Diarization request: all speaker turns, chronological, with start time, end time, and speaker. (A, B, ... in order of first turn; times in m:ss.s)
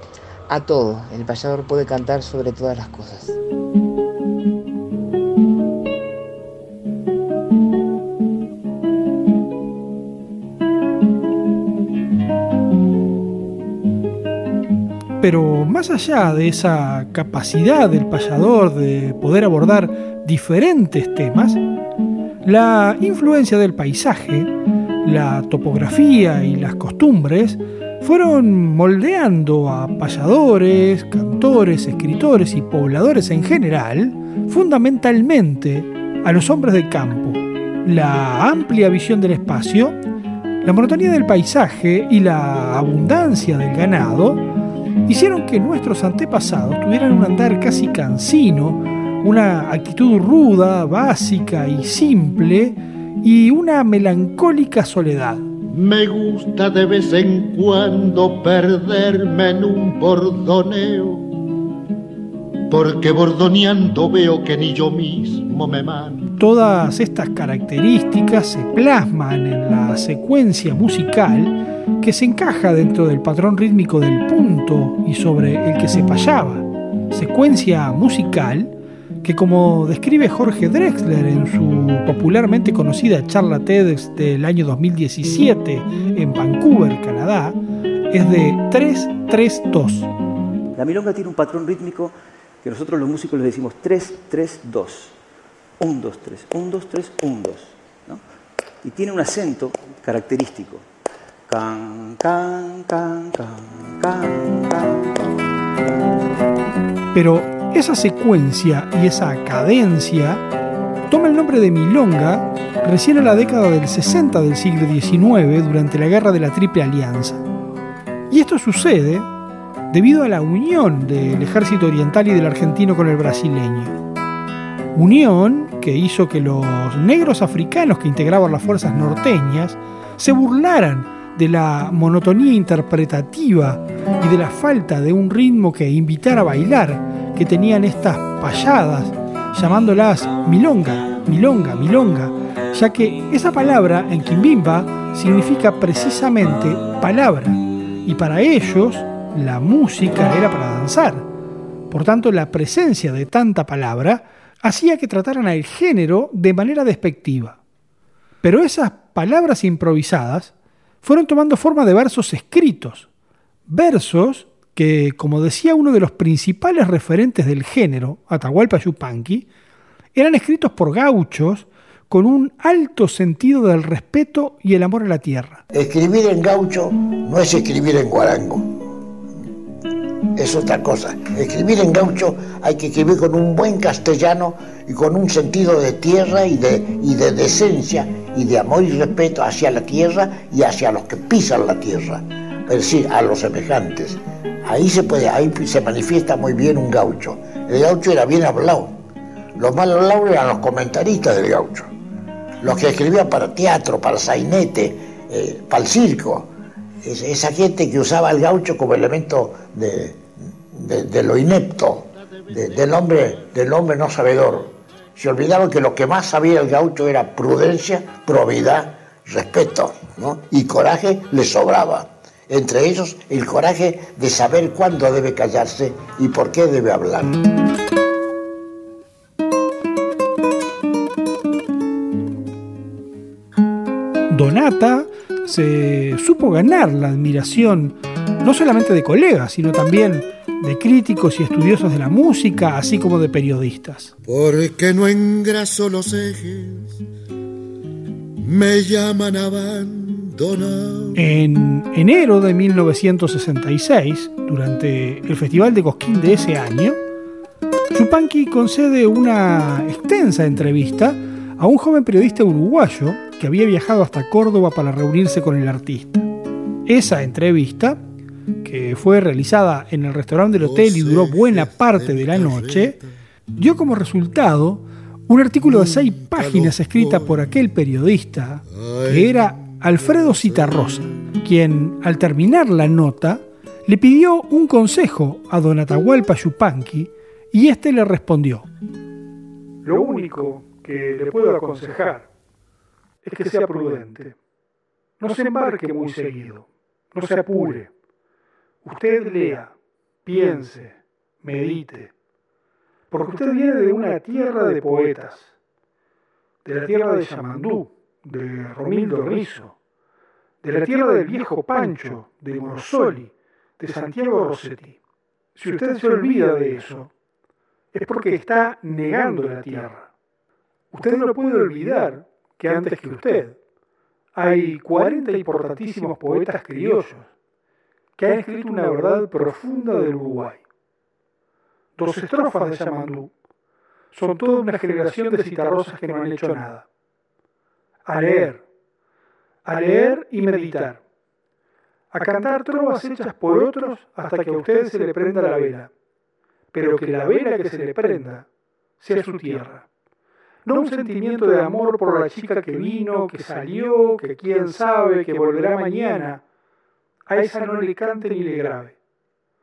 0:00.5-0:03.4 A
0:15.2-0:21.6 B
0:22.4-0:24.5 B
0:25.0-0:40.0 B
0:40.6-0:44.4 B
0:45.1-0:55.5 B
0:55.7-1:01.3 C
1:02.7-1:06.3 C
1:06.4-1:18.7 B
1:19.2-1:27.6 B
1:28.1-1:30.1 B
1:30.8-1:35.2 D
1:35.8-1:38.2 D
1:38.8-1:40.8 D
1:41.5-1:45.3 D
1:47.1-1:50.4 B
1:51.1-1:57.4 B
1:58.3-1:59.3 B
1:59.9-2:04.0 B
2:04.9-2:31.3 B
2:31.9-2:37.6 B
2:38.4-2:43.1 B
2:43.7-2:49.5 B
2:50.2-2:55.6 B
2:55.7-2:58.7 E
3:00.4-3:18.9 E
3:19.6-3:21.9 E
3:22.6-3:26.5 E
3:27.0-3:47.4 E
3:54.3-4:04.1 B
4:04.2-4:07.0 C
4:08.4-4:11.2 C
4:11.2-4:17.0 B
4:17.9-4:26.3 B
4:26.9-4:28.0 B
4:28.6-4:33.0 B
4:30.5-4:33.0 C
4:33.6-4:48.7 B
4:35.7-4:37.6 C
4:38.8-4:41.0 C
4:49.8-4:52.3 B
4:53.2-4:54.4 B
4:55.2-4:57.9 B
4:58.8-4:59.7 B
5:00.2-5:02.1 B
5:03.1-5:05.5 B
5:06.6-5:09.8 B
5:10.6-5:15.0 B
5:15.6-5:17.1 B
5:17.9-5:20.1 B
5:20.9-5:23.6 B
5:24.4-5:27.3 B
5:28.2-5:30.6 B
5:32.0-5:33.3 B
5:34.1-5:36.8 B
5:38.1-5:38.6 B
5:39.6-5:41.0 B
5:42.1-5:45.9 B
5:46.7-5:48.5 B
5:49.0-5:49.8 B
5:50.6-5:56.4 B
5:57.3-5:59.0 B